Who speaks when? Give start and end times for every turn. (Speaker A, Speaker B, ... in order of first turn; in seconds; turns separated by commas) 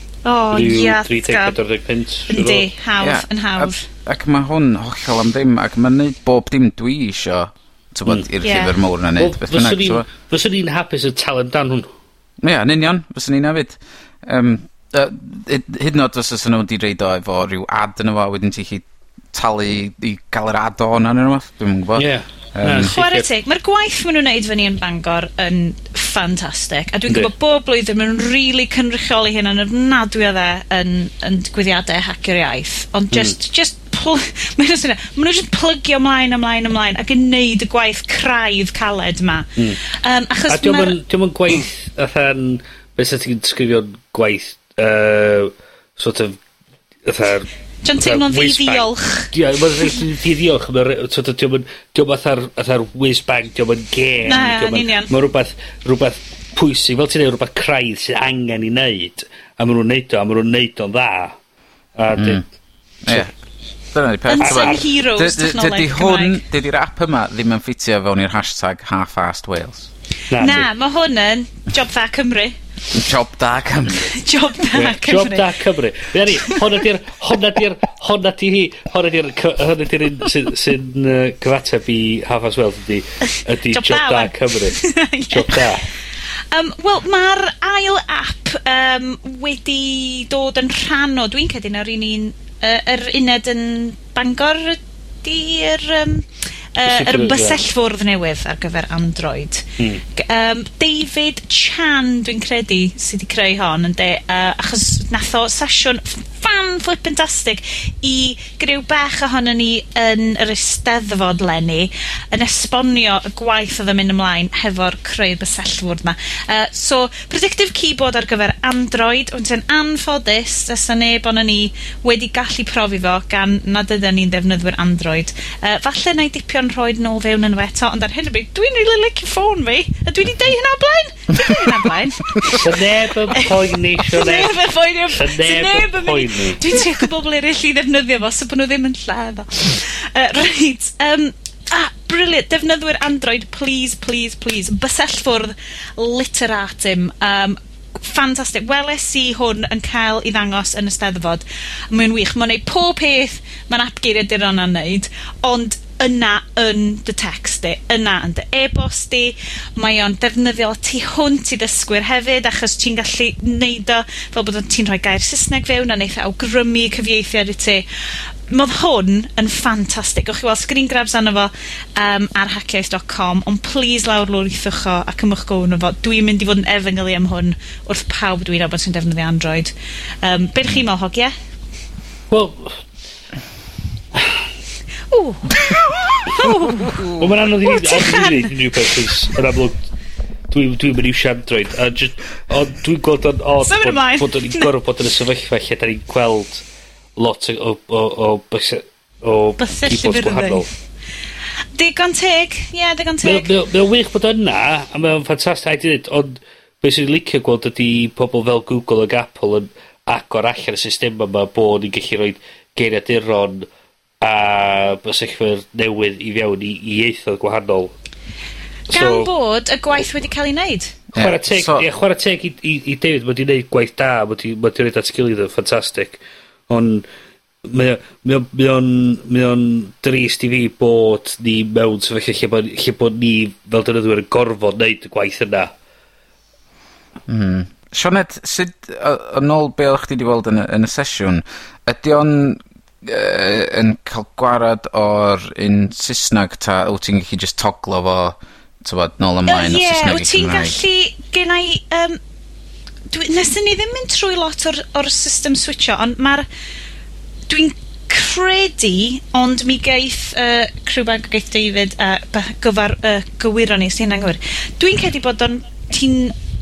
Speaker A: 0.2-1.6, Speaker B: 0.5-2.7, Speaker A: 2.3-3.9, Speaker C: 3.0-10.1, Speaker A: 8.4-8.7, Speaker B: 9.2-11.9, Speaker C: 12.4-22.9, Speaker B: 21.9-23.2, Speaker A: 22.8-41.0, Speaker B: 40.5-46.4, Speaker B: 47.0-61.3, Speaker A: 47.8-49.3, Speaker A: 54.2-55.1, Speaker B: 62.0-62.4, Speaker C: 62.1-62.4, Speaker C: 63.0-63.3, Speaker C: 63.9-69.9, Speaker A: 64.3-66.4, Speaker B: 64.4-64.8, Speaker B: 70.3-70.7, Speaker A: 70.3-72.5, Speaker C: 72.9-74.1, Speaker A: 74.1-75.5, Speaker B: 74.7-85.9, Speaker A: 83.7-85.6, Speaker A: 86.5-132.7, Speaker B: 96.8-97.6, Speaker B: 132.5-137.0, Speaker A: 133.3-167.8, Speaker A: 168.5-181.3, Speaker B: 182.3-182.8, Speaker A: 185.1-188.5, Speaker B: 187.2-189.8, Speaker B: 190.5-196.6, Speaker A: 193.6-194.7, Speaker B: 197.2-200.7, Speaker A: 199.6-200.7, Speaker A: 201.7-203.5, Speaker B: 203.2-213.7, Speaker B: 214.2-217.9, Speaker B: 218.9-219.3, Speaker A: 218.9-220.9, Speaker C: 221.1-221.8, Speaker B: 221.2-227.0, Speaker B: 227.6-235.7, Speaker C: 237.3-250.7, Speaker A: 249.4-252.2, Speaker A: 253.1-256.4, Speaker A: 257.5-266.3